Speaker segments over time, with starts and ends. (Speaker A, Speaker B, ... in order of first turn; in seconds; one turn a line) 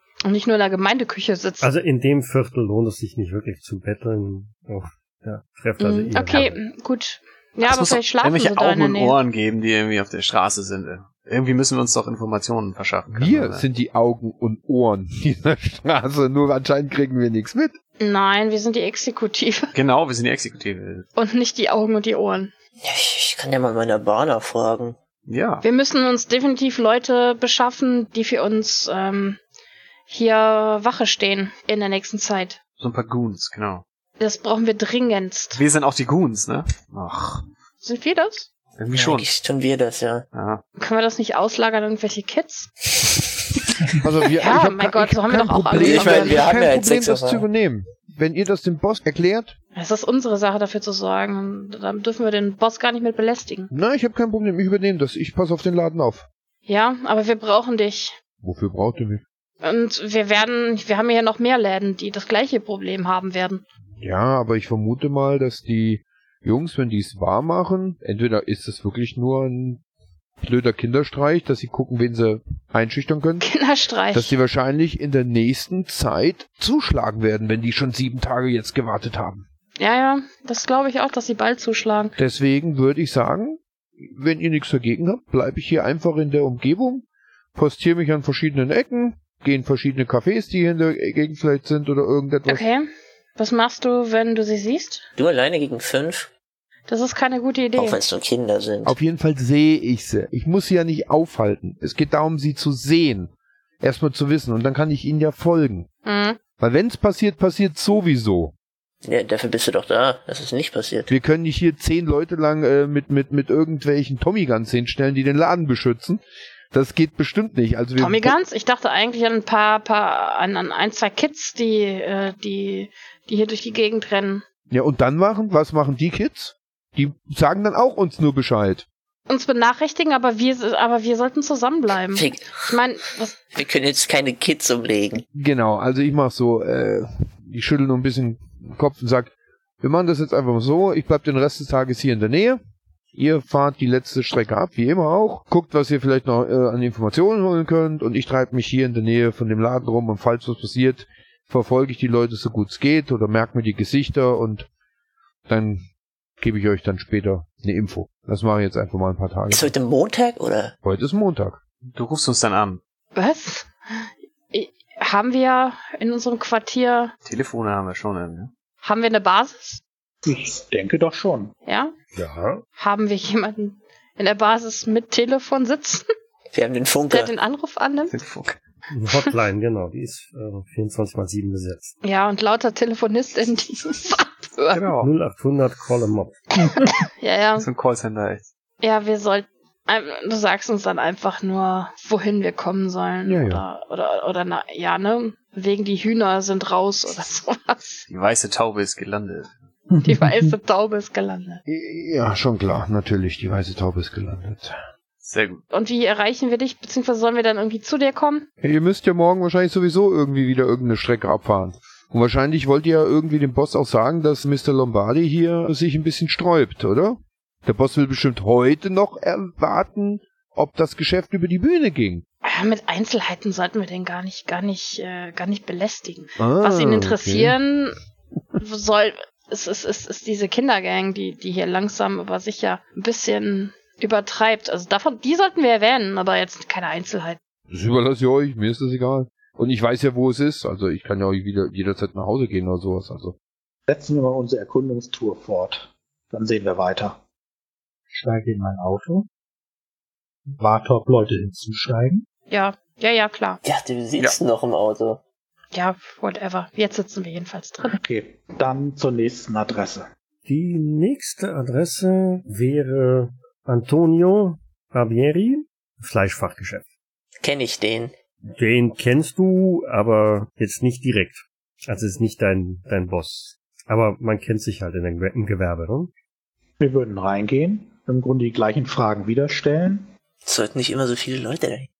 Speaker A: 0.2-1.7
Speaker B: 1.6-6.6
Speaker A: 5.8-9.2
Speaker C: 7.6-13.6
Speaker D: 13.1-17.8
Speaker A: 18.0-19.7
Speaker C: 19.7-21.1
Speaker A: 21.1-22.5
Speaker E: 22.8-25.0
Speaker C: 25.3-25.6
Speaker A: 25.6-29.4
Speaker A: 30.1-32.6
Speaker C: 32.8-33.8
Speaker A: 34.2-35.6
Speaker C: 35.5-37.4
Speaker A: 37.8-38.5
Speaker C: 38.8-39.3
Speaker E: 38.9-40.2
Speaker C: 40.3-40.6
Speaker A: 40.8-42.7
Speaker D: 44.0-49.6
Speaker A: 44.4-46.5
Speaker E: 45.7-47.4
Speaker A: 49.7-53.7
Speaker D: 53.7-56.2
Speaker A: 56.7-58.1
Speaker D: 58.4-59.2
Speaker A: 59.6-63.6
Speaker D: 64.0-69.8
Speaker D: 70.4-73.5
Speaker A: 73.4-74.3
Speaker D: 74.1-79.4
Speaker A: 79.8-82.1
Speaker D: 82.2-92.6
Speaker A: 92.5-95.1
Speaker E: 95.2-96.3
Speaker A: 96.9-98.0
Speaker E: 97.8-98.9
Speaker D: 98.8-105.9
Speaker A: 106.0-106.4
Speaker D: 106.6-108.5
Speaker E: 109.0-111.1
Speaker D: 111.1-118.3
Speaker A: 118.0-124.4
Speaker D: 124.7-128.8
Speaker A: 129.3-133.4
Speaker E: 132.1-132.7
Speaker E: 133.5-135.2
Speaker D: 135.3-142.6
Speaker D: 143.1-154.7
Speaker D: 155.5-155.8
Speaker D: 156.4-159.7
Speaker E: 159.5-160.7
Speaker D: 160.8-161.6
Speaker C: 161.9-162.8
Speaker A: 163.1-167.1
Speaker C: 167.2-168.5
Speaker A: 168.8-169.8
Speaker F: 170.2-171.5
Speaker A: 171.7-171.9
Speaker B: 172.2-172.6
Speaker A: 172.8-176.1
Speaker E: 176.5-177.3
Speaker A: 177.1-178.1
Speaker C: 178.1-178.6
Speaker B: 178.9-181.9
Speaker A: 182.0-184.8
Speaker C: 184.7-185.1
Speaker B: 185.0-186.4
Speaker A: 187.2-187.7
Speaker C: 187.6-188.5
Speaker A: 188.8-198.0
Speaker D: 193.2-193.6
Speaker C: 198.1-199.5
Speaker F: 200.0-200.5
Speaker A: 200.0-201.6
Speaker D: 201.7-204.7
Speaker C: 205.2-205.6
Speaker A: 205.7-208.5
Speaker D: 208.6-222.2
Speaker A: 222.4-228.0
Speaker D: 226.4-227.6
Speaker A: 228.6-237.4
Speaker D: 237.7-243.3
Speaker F: 243.9-247.2
Speaker F: 248.1-249.3
Speaker F: 250.5-252.2
Speaker A: 252.5-253.6
Speaker E: 253.6-255.2
Speaker A: 255.7-258.0
Speaker F: 257.8-260.1
Speaker B: 260.4-266.8
Speaker E: 267.4-268.1
Speaker B: 268.5-276.1
Speaker F: 276.8-280.1
Speaker E: 280.4-281.9